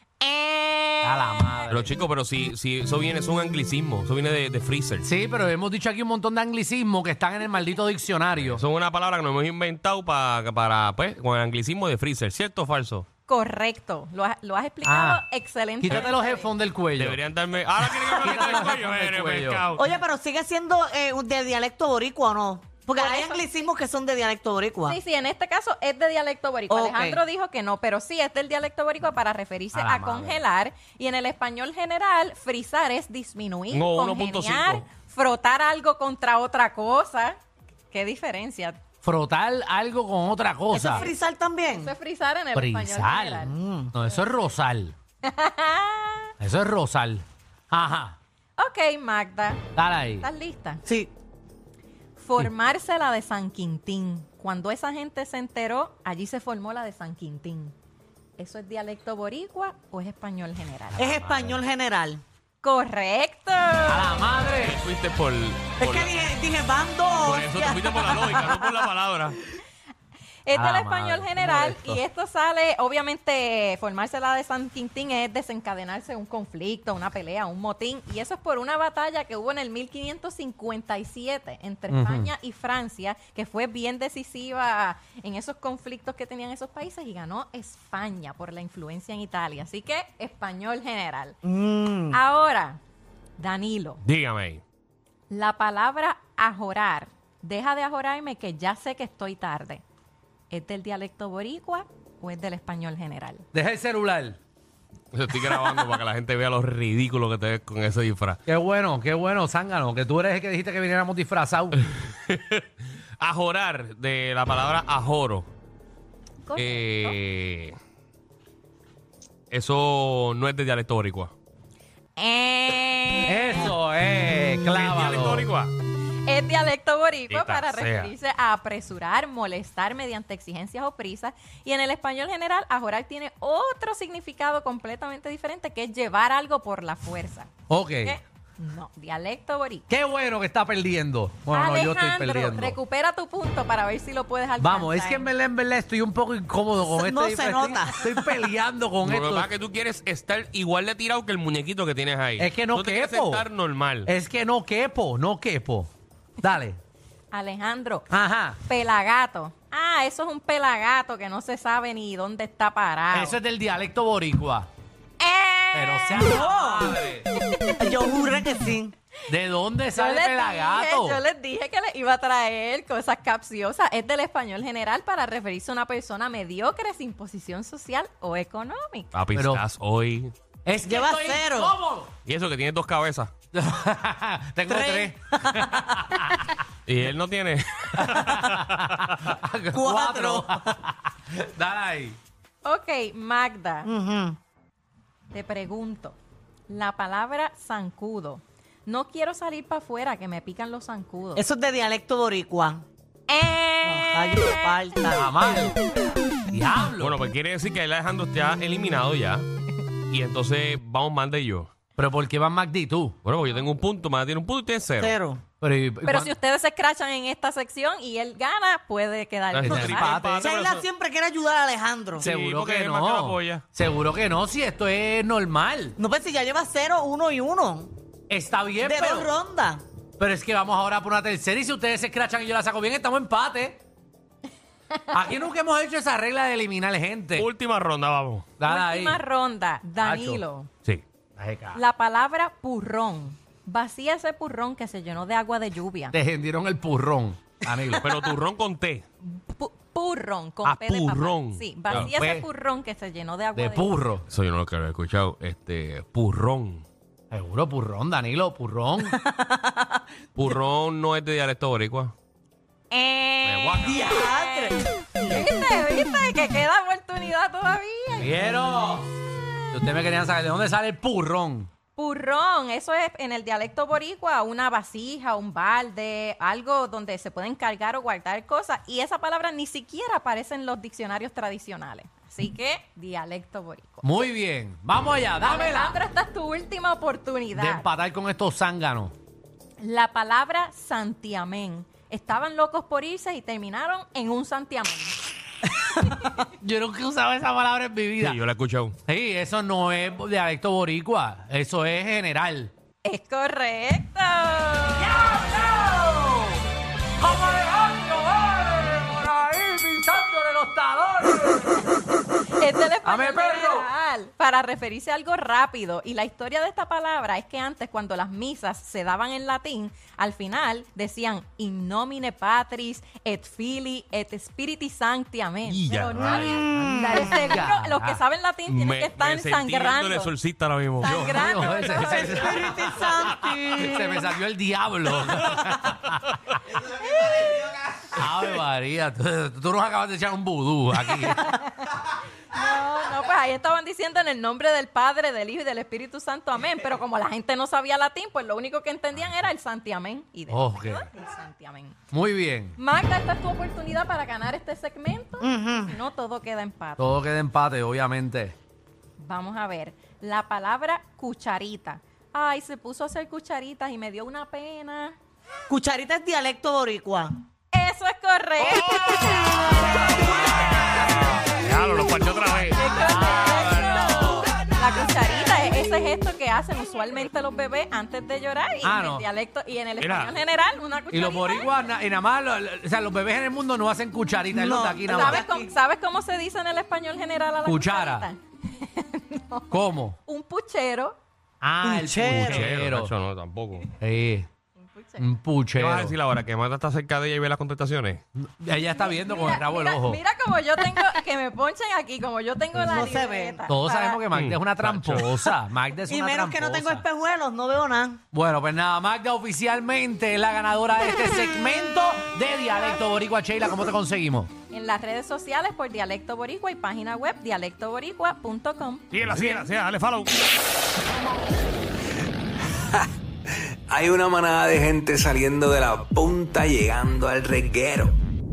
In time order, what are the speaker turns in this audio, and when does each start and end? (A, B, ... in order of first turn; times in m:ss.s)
0:00.2-0:01.6 A
0:01.0-0:01.9 B
0:01.7-0:05.1 C
0:05.0-0:08.6 B
0:08.4-0:13.0 C
0:13.3-0:16.5 A
0:14.8-0:15.2 B
0:15.8-0:17.2 B
0:17.0-0:19.8 C
0:17.9-0:19.7 B
0:19.8-0:25.0 D
0:23.0-0:23.5 A
0:24.8-0:37.4 A
0:26.7-0:27.2 D
0:29.7-0:30.4 B
0:33.7-0:34.8 C
0:37.9-0:38.8 A
0:39.0-0:41.1 B
0:40.7-0:41.9 D
0:40.9-0:41.1 A
0:41.7-0:43.5 A
0:42.5-0:44.9 B
0:43.4-0:43.9 D
0:45.2-0:46.3 A
0:46.4-0:48.2 B
0:48.6-0:50.8 A
0:49.8-0:50.3 B
0:50.8-0:51.1 D
0:52.2-0:57.7 A
0:58.4-1:01.0 A
1:00.9-1:01.6 B
1:01.0-1:02.2 D
1:02.6-1:04.2 A
1:03.9-1:04.8 B
1:04.6-1:06.3 C
1:05.8-1:08.9 D
1:07.2-1:09.4 C
1:10.4-1:31.4 A
1:10.5-1:12.0 B
1:21.9-1:22.3 B
1:31.4-1:32.2 D
1:32.1-1:32.8 A
1:33.4-1:34.0 A
1:34.0-1:34.6 C
1:35.3-1:39.8 A
1:40.5-1:43.4 A
1:43.5-1:44.4 B
1:45.1-1:48.4 C
1:48.5-1:51.8 B
1:51.9-1:52.6 C
1:53.2-1:55.5 C
1:56.4-1:57.2 A
1:56.5-1:57.7 C
1:59.5-2:01.3 C
2:02.2-2:03.7 A
2:03.3-2:05.5 B
2:04.7-2:05.7 C
2:06.2-2:17.5 A
2:07.3-2:08.1 C
2:17.7-2:18.2 B
2:18.0-2:19.9 A
2:19.9-2:22.8 B
2:21.5-2:25.3 A
2:24.6-2:29.5 B
2:26.9-2:28.1 D
2:29.0-2:34.1 C
2:32.4-2:33.5 B
2:34.0-2:35.9 B
2:36.4-2:36.8 B
2:37.3-2:38.1 A
2:38.1-2:38.6 B
2:38.6-2:43.4 A
2:43.1-2:44.7 B
2:45.2-2:46.4 A
2:45.7-2:47.2 B
2:46.2-2:47.0 D
2:47.8-2:48.9 D
2:49.3-2:51.2 B
2:49.9-2:59.1 A
2:59.1-3:00.3 C
2:59.3-2:59.6 B
3:00.6-3:02.1 B
3:00.8-3:01.7 D
3:02.2-3:03.3 C
3:03.5-3:06.5 B
3:04.7-3:06.0 D
3:06.8-3:09.3 C
3:08.0-3:12.2 B
3:09.7-3:10.7 D
3:12.6-3:13.9 A
3:13.8-3:14.4 D
3:15.3-3:16.2 A
3:16.7-3:21.4 A
3:21.4-3:22.8 D
3:23.3-3:24.7 A
3:23.8-3:25.2 D
3:25.1-3:25.8 B
3:26.5-3:27.2 B
3:27.0-3:29.4 C
3:30.1-3:31.7 C
3:32.0-3:33.2 B
3:33.2-3:35.1 C
3:35.0-3:35.4 D
3:35.6-3:36.3 B
3:36.0-3:40.2 A
3:39.5-3:40.8 C
3:39.6-3:40.6 B
3:39.7-3:42.3 D
3:42.2-3:43.6 C
3:42.2-3:46.0 B
3:46.0-3:47.9 D
3:48.3-3:49.3 B
3:48.8-3:49.8 D
3:50.2-3:53.8 B
3:55.1-3:57.5 B
3:57.4-3:58.5 C
3:58.6-3:59.2 B
3:58.6-4:00.7 A
4:00.0-4:00.4 B
4:01.4-4:01.8 B
4:01.7-4:06.2 A
4:06.1-4:08.1 B
4:08.0-4:09.0 C
4:09.2-4:14.0 A
4:10.6-4:12.1 C
4:11.9-4:12.4 B
4:13.5-4:14.2 B
4:14.3-4:16.8 C
4:17.3-4:19.2 B
4:19.0-4:20.0 D
4:20.4-4:22.1 C
4:22.9-4:25.4 D
4:23.4-4:24.1 C
4:24.4-4:28.6 A
4:28.2-4:29.1 B
4:29.7-4:31.7 B
4:32.0-4:44.2 A
4:44.0-4:46.0 B
4:45.4-4:47.8 A
4:47.5-4:49.1 B
4:49.8-4:55.2 A
4:56.4-4:58.4 B
4:58.2-4:58.9 C
4:59.1-5:02.7 B
5:03.0-5:05.2 A
5:05.0-5:06.6 B
5:07.2-5:11.9 B
5:12.6-5:30.3 A
5:13.0-5:13.9 B
5:25.6-5:26.7 C
5:26.1-5:28.2 B
5:26.3-5:27.4 D
5:28.7-5:31.9 C
5:31.0-5:32.4 A
5:31.0-5:36.3 B
5:31.9-5:34.3 D
5:36.8-5:37.6 A
5:38.1-5:41.4 B
5:41.0-5:42.0 A
5:42.5-5:52.0 A
5:50.5-5:51.1 B
5:52.1-5:52.8 B
5:52.8-5:57.0 A
5:55.4-5:55.9 D
5:57.0-5:58.5 B
5:59.2-6:05.2 A
6:05.7-6:07.4 D
6:07.7-6:11.1 A
6:10.6-6:14.4 C
6:12.7-6:21.7 A
6:13.1-6:14.4 B
6:18.8-6:19.2 B
6:20.0-6:20.4 C
6:21.1-6:25.4 B
6:24.5-6:25.7 D
6:25.0-6:29.7 A
6:27.6-6:28.3 B
6:29.7-6:30.2 B
6:30.2-6:31.2 A
6:31.6-6:33.1 B
6:31.8-6:32.7 D
6:32.3-6:33.9 C
6:34.0-6:34.5 B
6:34.9-6:35.2 A
6:35.2-6:36.1 B
6:35.8-6:38.2 C
6:38.4-6:40.2 B
6:39.0-6:44.2 A
6:42.9-6:43.6 D
6:43.7-6:47.1 B
6:44.3-6:45.5 C
6:46.1-6:48.2 D
6:48.3-6:54.5 B
6:52.7-6:53.0 A
6:54.7-6:59.1 A
6:59.1-7:00.3 C
7:03.9-7:08.2 E